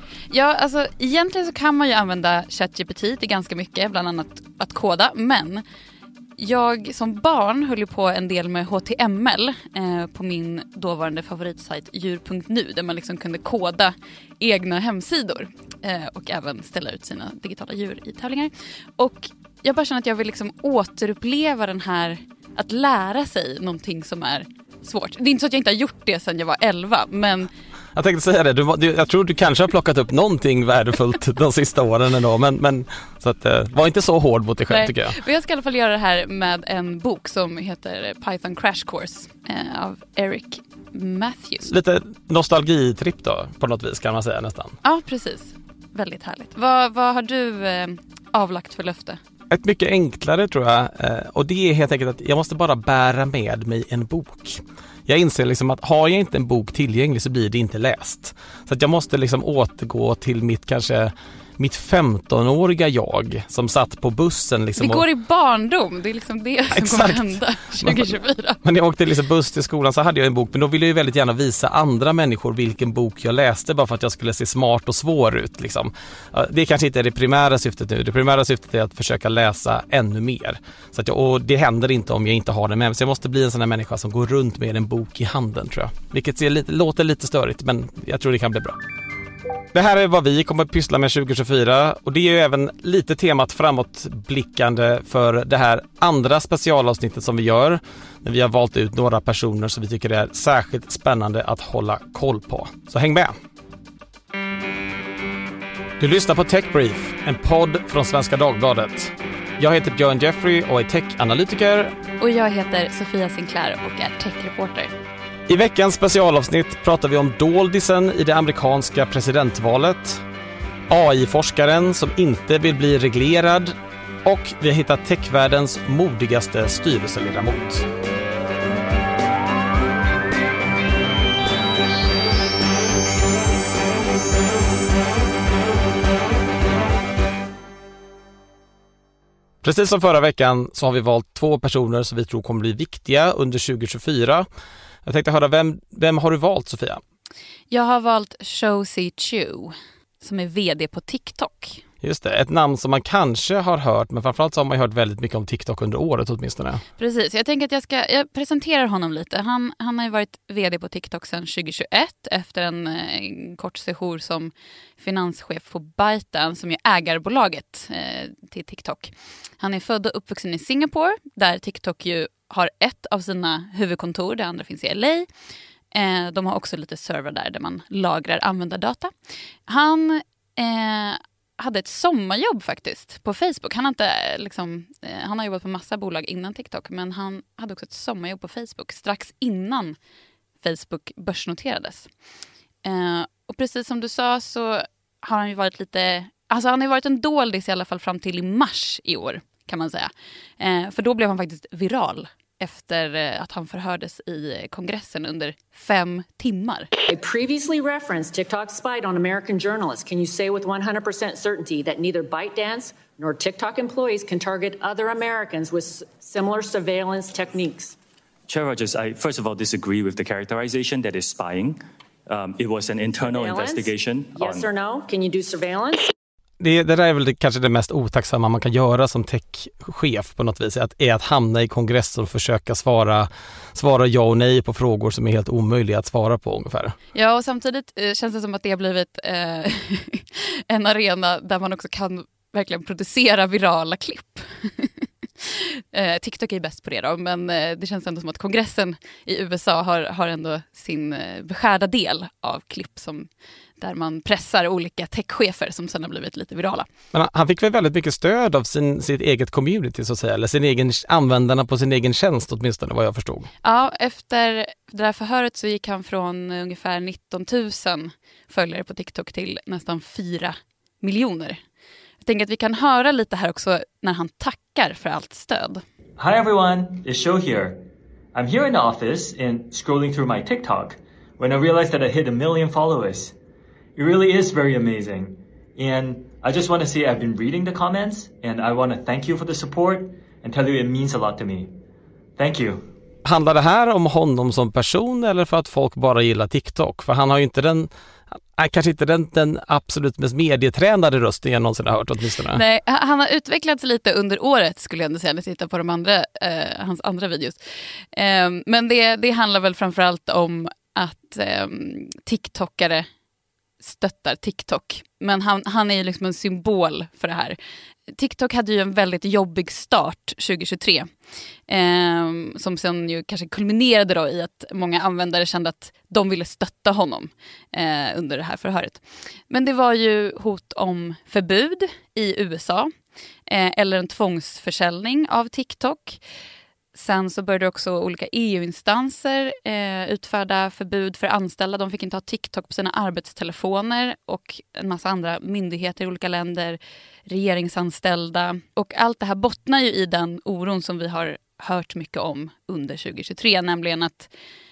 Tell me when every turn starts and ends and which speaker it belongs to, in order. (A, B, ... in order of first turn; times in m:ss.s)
0:00.3-0:05.6 A
0:06.4-0:27.5 A
0:28.0-0:35.2 B
0:34.7-0:41.7 A
0:41.7-0:44.8 B
0:44.8-0:49.2 A
0:49.5-1:05.0 B
1:04.8-1:08.6 A
1:06.7-1:28.8 B
1:29.7-1:43.4 B
1:46.0-1:52.0 B
1:52.2-1:54.9 A
1:55.5-2:00.2 B
2:00.9-2:07.9 B
2:19.6-2:24.5 B
2:25.1-2:27.0 B
2:27.7-2:31.8 A
2:32.0-2:36.8 B
2:37.0-2:55.3 A
2:55.9-2:59.1 A
2:59.7-3:10.0 A
3:10.6-3:12.1 A
3:12.8-3:26.9 A
3:27.1-3:38.0 C
3:38.5-3:44.7 D
3:43.3-3:46.1 C
3:46.6-3:57.0 B
3:57.1-4:16.9 A
4:17.1-4:23.5 B
4:23.6-4:31.6 A
4:32.2-4:35.8 A
4:36.2-4:37.8 E
4:38.3-4:43.3 E
4:44.0-4:51.8 E
4:52.4-4:52.8 E
4:53.2-4:57.9 B
4:58.5-5:02.6 B
5:02.5-5:07.6 A
5:08.1-5:13.1 A
5:13.8-5:17.6 A
5:18.1-5:21.1 A
5:21.7-5:32.9 A
5:33.5-5:36.2 A
5:37.0-5:54.3 A